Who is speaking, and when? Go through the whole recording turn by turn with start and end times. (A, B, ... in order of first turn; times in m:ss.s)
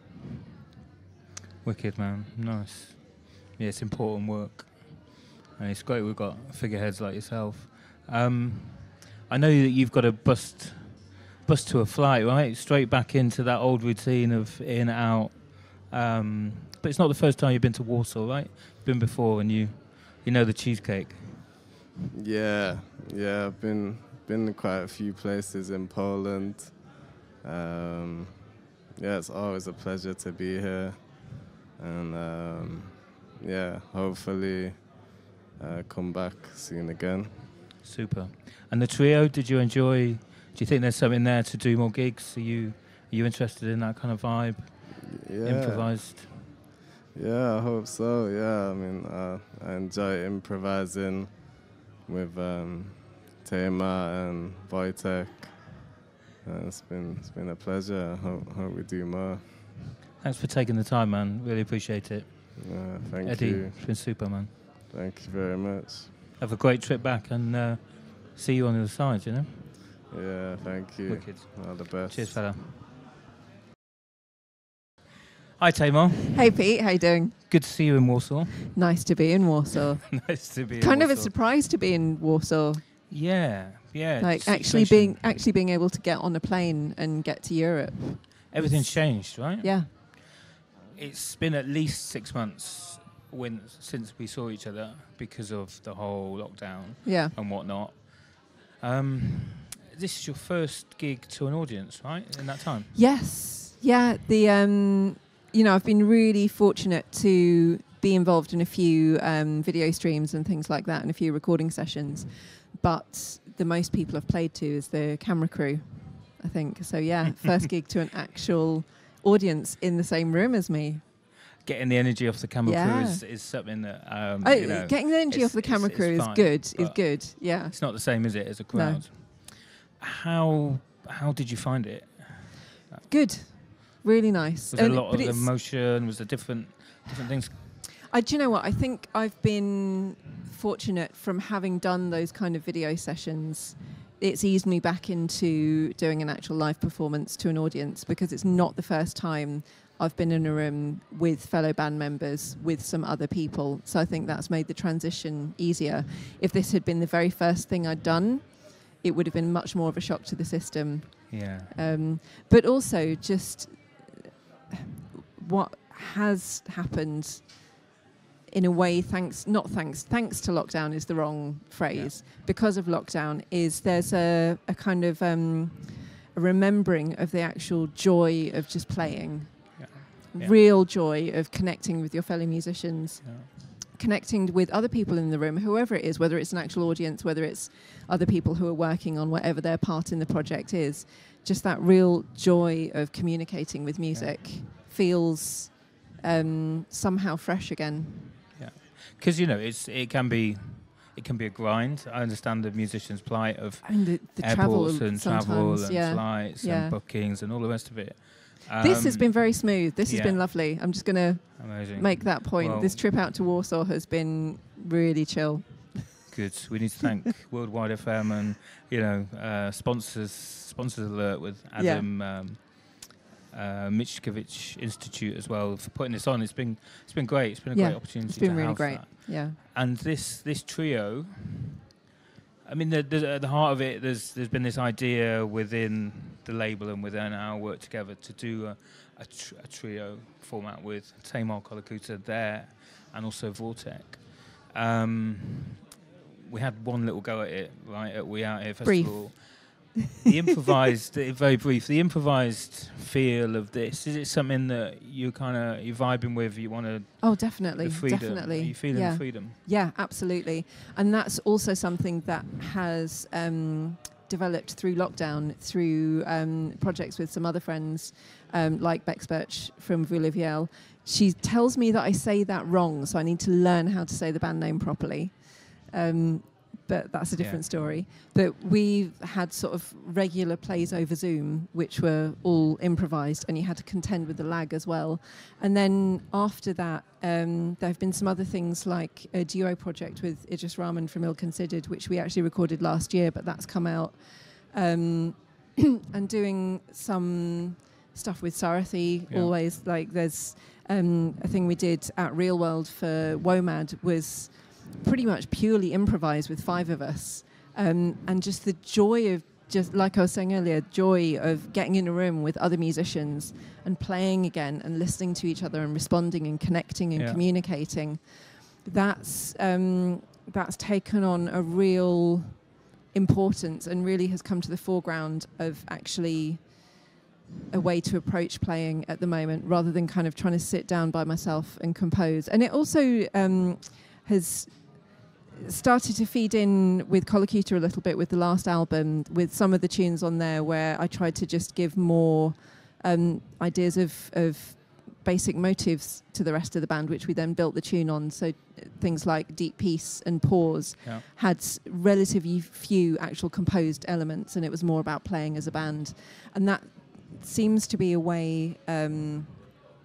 0:01.6-0:21.4 A
0:22.2-0:26.8 B
0:27.4-0:28.4 B
0:29.0-0:34.9 B
0:35.6-0:37.4 B
0:37.8-0:46.3 A
0:45.2-0:46.1 B
0:47.1-0:51.4 B
0:52.1-0:55.8 B
0:56.4-0:59.6 B
1:00.2-1:04.5 A
1:02.6-1:03.8 B
1:04.9-1:06.1 B
1:06.4-1:09.7 A
1:10.1-1:12.4 B
1:11.1-1:12.8 A
1:15.6-1:16.5 A
1:16.3-1:17.4 C
1:17.5-1:18.7 A
1:18.7-1:22.9 C
1:20.1-1:21.3 A
1:23.1-1:25.2 A
1:24.2-1:29.9 C
1:28.5-1:30.3 A
1:30.9-1:42.9 A
1:37.0-1:37.4 C
1:42.9-2:01.0 C
2:01.6-2:13.0 A
2:02.6-2:03.2 C
2:04.4-2:09.1 C
2:13.1-2:15.5 C
2:14.7-2:17.6 A
2:17.8-2:44.2 C
2:41.3-2:41.7 A
2:44.7-2:47.7 C
2:48.5-3:18.4 C
2:59.8-3:00.5 A
3:14.1-3:14.4 A
3:18.6-3:30.4 A
3:23.8-3:27.0 C
3:28.8-3:36.4 C
3:31.6-3:33.0 A
3:36.3-3:51.7 A
3:41.8-3:42.1 C
3:47.7-3:49.6 C
3:52.6-4:05.8 A
4:06.5-4:19.6 A
4:08.8-4:09.9 C
4:17.2-5:27.0 C
4:37.4-4:37.7 A
5:17.2-5:17.4 A
5:27.7-5:59.8 C